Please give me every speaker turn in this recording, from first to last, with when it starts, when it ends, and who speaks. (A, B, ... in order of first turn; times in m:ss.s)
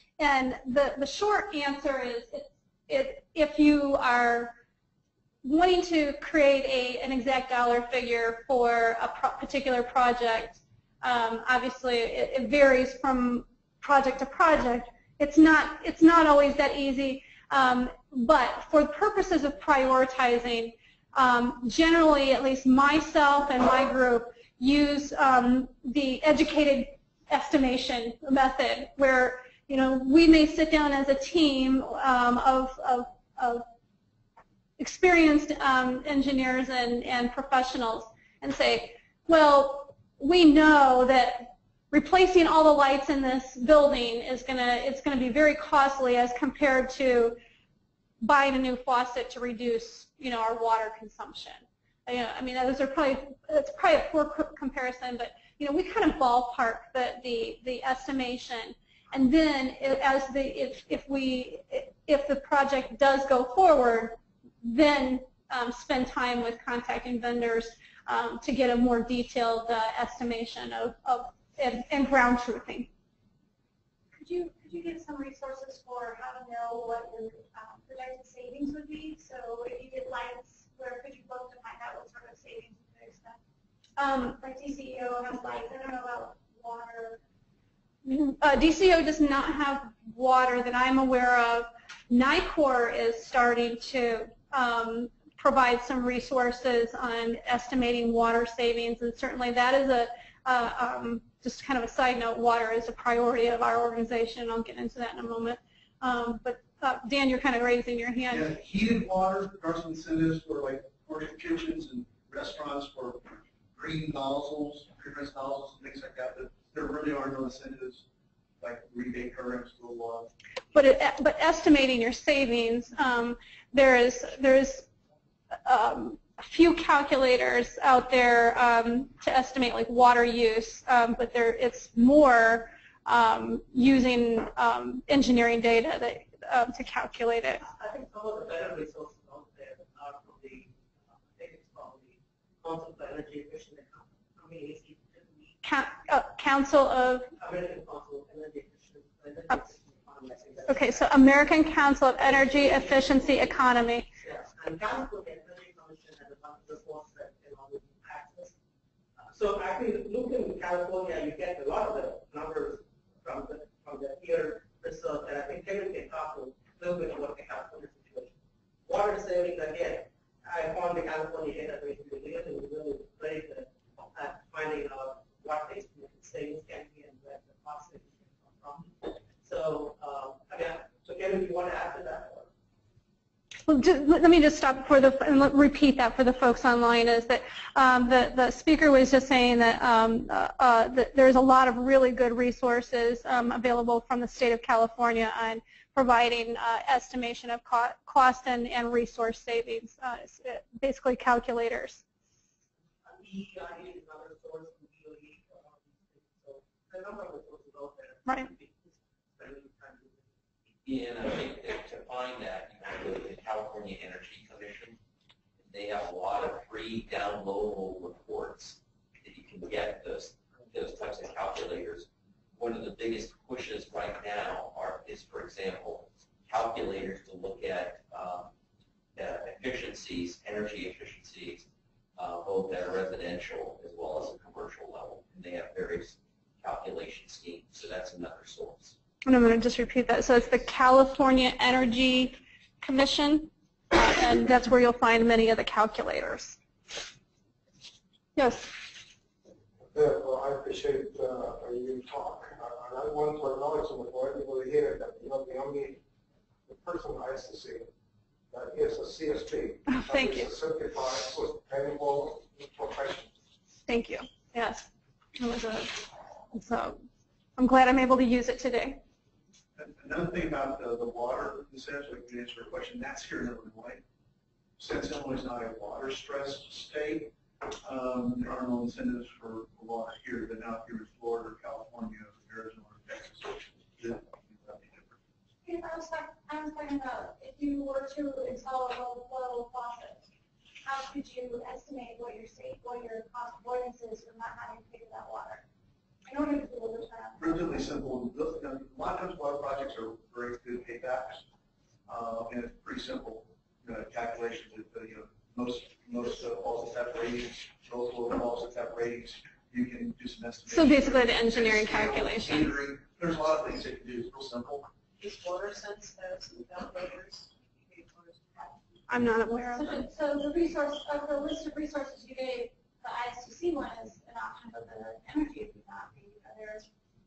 0:00.2-0:04.6 A
0:05.4-0:33.6 A
0:34.8-0:47.4 A
0:48.2-1:12.9 A
1:14.1-1:23.4 B
1:24.0-1:27.2 B
1:28.1-1:48.5 A
1:48.3-1:58.0 C
1:58.6-2:00.3 C
2:00.7-2:04.9 A
2:05.6-2:17.6 A
2:17.6-2:25.6 D
2:25.6-2:27.3 A
2:27.4-2:31.1 D
2:30.7-2:34.1 A
2:32.2-2:33.5 D
2:34.2-2:38.5 D
2:39.3-3:02.5 D
3:03.7-3:22.0 A
3:23.0-3:30.4 D
3:30.9-3:35.0 E
3:35.6-3:48.5 E
3:49.2-3:51.7 E
3:52.2-3:59.0 E
3:59.2-4:06.6 A
4:08.4-4:08.7 A
4:09.9-4:16.0 F
4:16.7-4:17.9 F
4:18.5-4:23.3 F
4:19.9-4:20.5 A
4:23.9-4:26.0 A
4:26.5-4:27.0 A
4:27.6-4:29.0 A
4:29.8-4:34.0 C
4:34.8-4:45.2 C
4:45.6-4:50.3 B
4:50.8-4:55.6 B
4:56.3-4:57.8 B
4:57.4-5:01.4 C
5:02.1-5:14.9 C
5:10.7-5:12.7 A
5:15.2-5:19.0 B
5:19.1-5:20.1 A
5:19.7-5:26.9 B